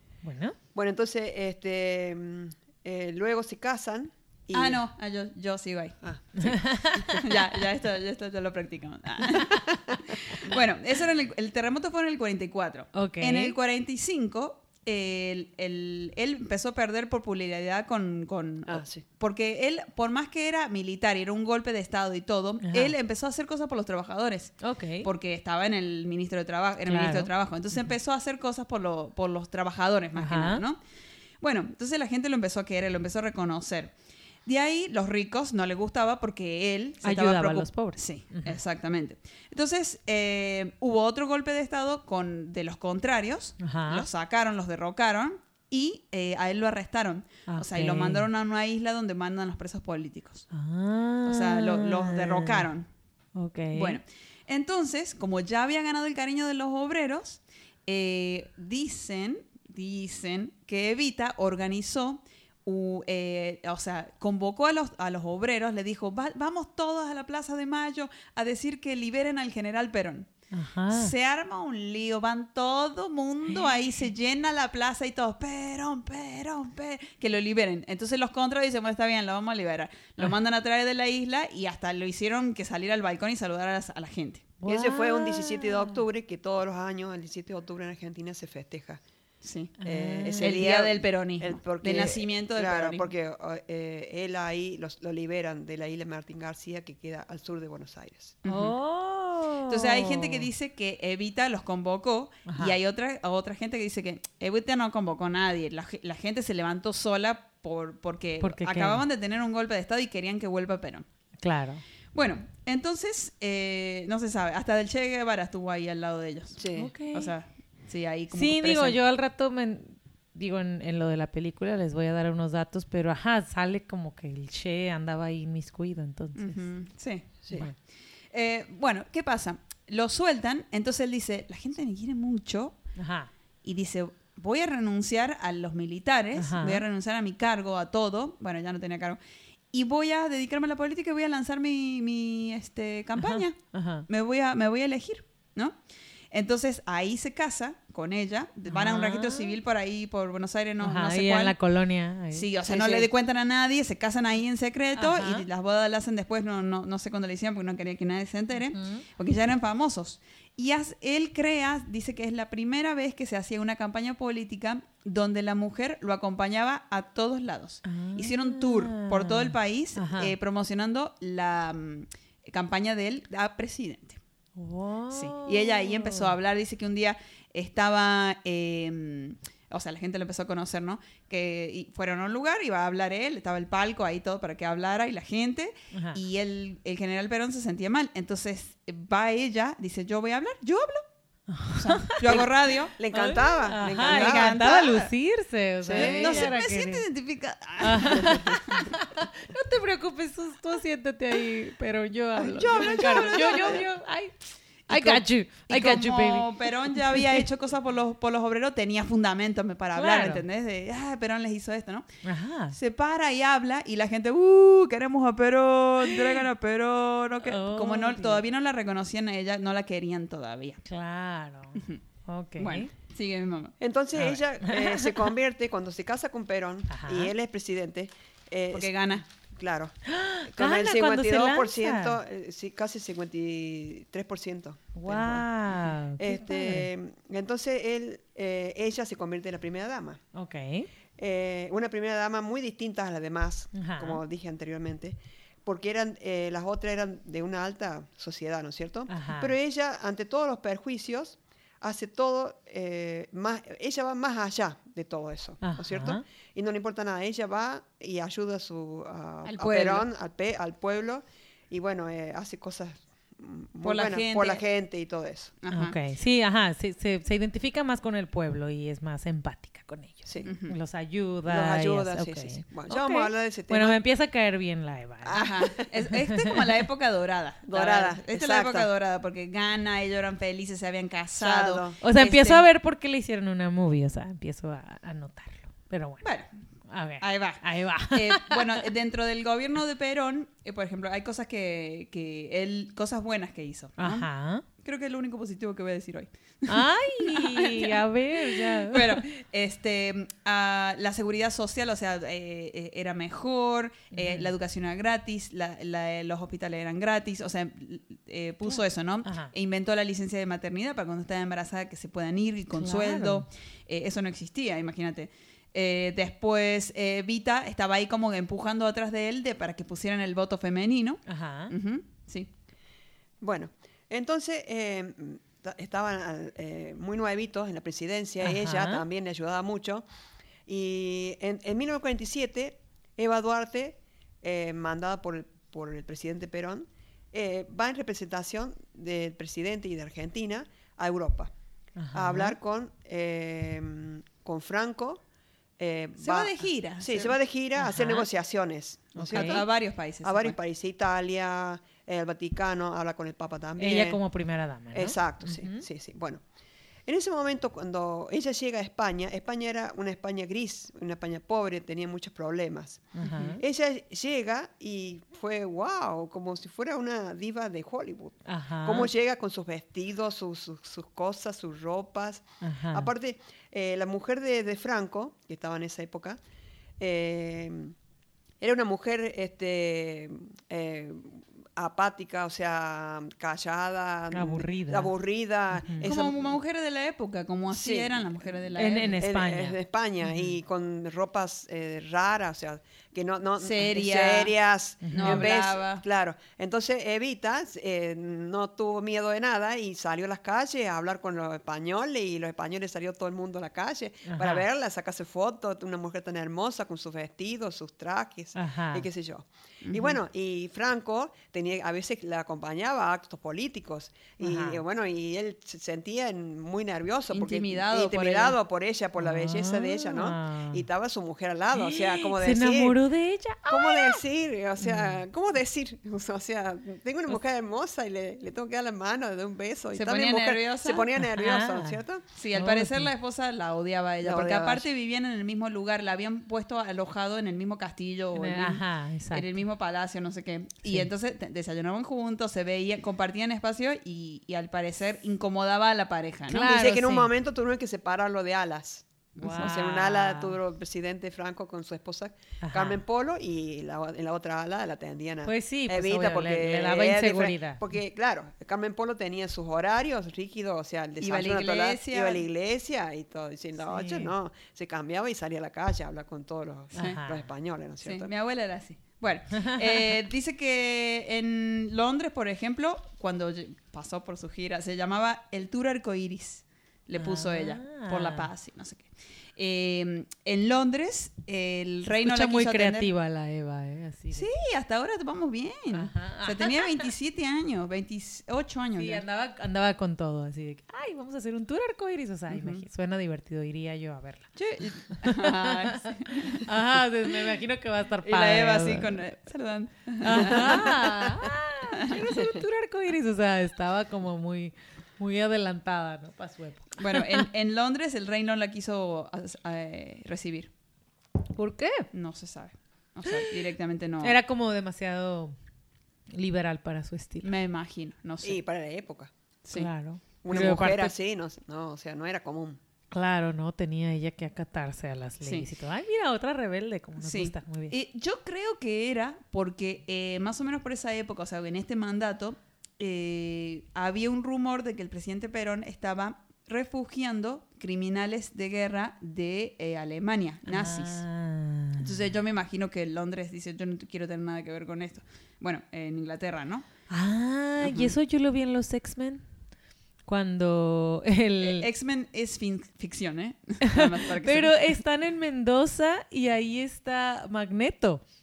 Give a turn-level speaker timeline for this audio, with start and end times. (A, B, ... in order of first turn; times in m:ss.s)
0:00.2-0:00.6 A
0:00.7-0:04.8 B
0:04.5-0:30.8 C
0:06.4-0:07.2 A
0:06.9-0:07.3 B
0:09.2-0:10.4 B
0:12.9-0:13.6 A
0:18.6-0:19.0 B
0:22.6-0:22.9 A
0:24.6-0:25.1 A
0:26.8-0:27.3 A
0:30.2-0:30.6 A
0:31.4-0:33.9 C
0:34.4-0:50.5 C
0:37.0-0:38.6 A
0:43.6-0:44.1 A
0:47.4-0:48.3 A
0:50.5-0:52.6 A
0:51.2-0:52.9 C
0:53.4-0:54.0 A
0:53.7-1:10.3 C
1:10.5-1:11.1 A
1:10.9-1:24.5 C
1:24.6-1:26.0 A
1:24.7-1:29.0 B
1:29.4-1:33.1 C
1:29.8-1:30.6 A
1:29.8-1:38.4 B
1:38.4-1:38.8 C
1:38.4-1:40.5 A
1:39.7-1:51.0 C
1:42.5-1:42.8 A
1:48.4-1:49.0 A
1:51.4-1:51.8 A
1:52.1-1:59.0 C
1:56.6-1:56.9 B
1:56.8-1:57.3 A
1:58.3-2:06.7 A
2:06.4-2:13.0 C
2:13.0-2:13.3 A
2:13.6-2:19.2 C
2:16.4-2:16.8 A
2:19.7-2:25.8 C
2:23.2-2:24.0 A
2:26.3-2:31.6 C
2:28.7-2:29.6 A
2:30.8-2:32.5 A
2:32.3-2:54.2 C
2:32.6-2:33.1 B
2:35.0-2:35.4 A
2:38.7-2:39.0 A
2:47.8-2:50.3 A
2:54.6-2:56.3 A
2:55.1-3:11.0 C
3:05.9-3:06.2 A
3:11.5-3:12.3 A
3:11.7-3:12.9 C
3:12.2-3:14.6 B
3:13.1-3:17.0 A
3:13.9-3:15.1 C
3:15.8-3:16.5 B
3:15.9-3:19.0 C
3:17.8-3:27.5 A
3:18.1-3:18.6 B
3:22.4-3:23.8 C
3:22.4-3:23.8 B
3:24.9-3:32.1 C
3:29.9-3:30.4 A
3:32.2-3:32.8 A
3:32.7-3:40.8 C
3:36.0-3:36.4 A
3:37.4-3:38.4 A
3:40.8-3:42.9 A
3:42.6-3:44.4 C
3:43.8-3:55.5 B
3:44.6-3:45.0 A
3:46.9-3:47.3 A
3:48.7-3:49.2 C
3:50.0-3:52.2 A
3:54.9-3:56.9 A
3:56.2-4:00.2 B
4:00.3-4:00.9 A
4:01.2-4:25.5 B
4:03.7-4:04.2 A
4:09.1-4:09.5 A
4:15.6-4:16.2 A
4:19.4-4:20.0 C
4:23.8-4:24.6 C
4:25.6-4:25.9 C
4:25.7-4:36.6 A
4:30.4-4:30.7 C
4:31.5-4:34.0 B
4:35.3-4:35.8 B
4:35.3-4:42.7 C
4:37.6-4:38.9 B
4:41.3-4:41.9 B
4:42.0-4:46.3 A
4:46.2-4:46.5 C
4:46.9-4:48.9 A
4:47.2-5:22.5 C
4:54.0-4:54.6 A
4:56.7-4:59.2 A
5:04.1-5:04.5 A
5:08.6-5:09.5 A
5:12.7-5:13.4 A
5:21.3-5:21.7 A
5:23.4-5:30.0 B
5:28.4-5:29.0 A
5:30.7-5:41.5 B
5:42.0-5:42.6 A
5:42.1-5:45.2 B
5:45.8-5:49.7 B
5:46.2-5:47.4 C
5:47.8-5:48.2 A
5:49.1-5:49.6 A
5:49.3-5:50.6 C
5:50.2-5:54.2 B
5:53.8-5:55.8 A
5:54.9-5:56.4 B
5:57.0-6:16.4 B
6:03.1-6:03.6 A
6:03.2-6:03.5 C
6:08.4-6:09.1 A
6:12.6-6:13.1 A
6:17.0-6:18.0 B
6:18.6-6:26.6 B
6:24.3-6:25.1 A
6:25.7-6:26.1 A
6:26.0-6:29.2 C
6:27.7-7:03.0 B
6:28.8-6:30.5 A
6:33.6-6:34.5 C
6:35.0-6:35.5 A
6:35.1-6:36.0 C
6:44.2-6:44.6 A
6:48.5-6:49.0 A
6:49.8-6:50.2 C
6:54.4-6:54.8 A
6:57.3-6:58.6 C
6:59.2-7:00.8 A
7:01.7-7:04.2 A
7:03.6-7:12.2 B
7:04.8-7:05.2 A
7:09.9-7:11.1 C
7:11.2-7:12.0 A
7:12.4-7:26.7 C
7:12.5-7:13.1 A
7:14.2-7:14.9 B
7:18.3-7:19.6 A
7:26.5-7:27.3 A
7:26.6-7:48.3 B
7:29.4-7:30.5 A
7:29.4-7:29.8 C
7:32.6-7:33.0 A
7:35.4-7:37.8 A
7:41.2-7:42.4 C
7:43.8-7:44.3 A
7:46.9-7:47.5 A
7:48.0-8:03.1 C
7:49.6-7:50.1 A
7:57.2-7:58.5 A
8:02.0-8:04.5 A
8:04.3-8:09.2 C
8:05.9-8:07.1 A
8:09.0-8:14.5 A
8:12.5-8:12.8 C
8:14.5-8:16.7 C
8:15.1-8:19.2 A
8:18.2-8:21.1 C
8:20.2-8:27.4 A
8:27.0-8:30.7 C
8:31.5-8:32.1 A
8:32.1-8:34.4 C
8:33.3-8:33.5 A
8:34.2-8:35.5 A
8:36.3-8:37.5 A
8:37.4-8:38.6 C
8:38.4-8:39.3 B
8:39.7-8:41.1 A
8:40.4-8:42.8 B
8:43.1-8:47.9 A
8:45.4-8:45.7 C
8:47.2-9:01.2 C
9:00.7-9:02.1 A
9:02.0-9:06.9 C
9:07.1-9:09.4 A
9:07.8-9:08.1 C
9:10.2-9:11.9 A
9:11.6-9:15.0 C
9:13.8-9:18.2 A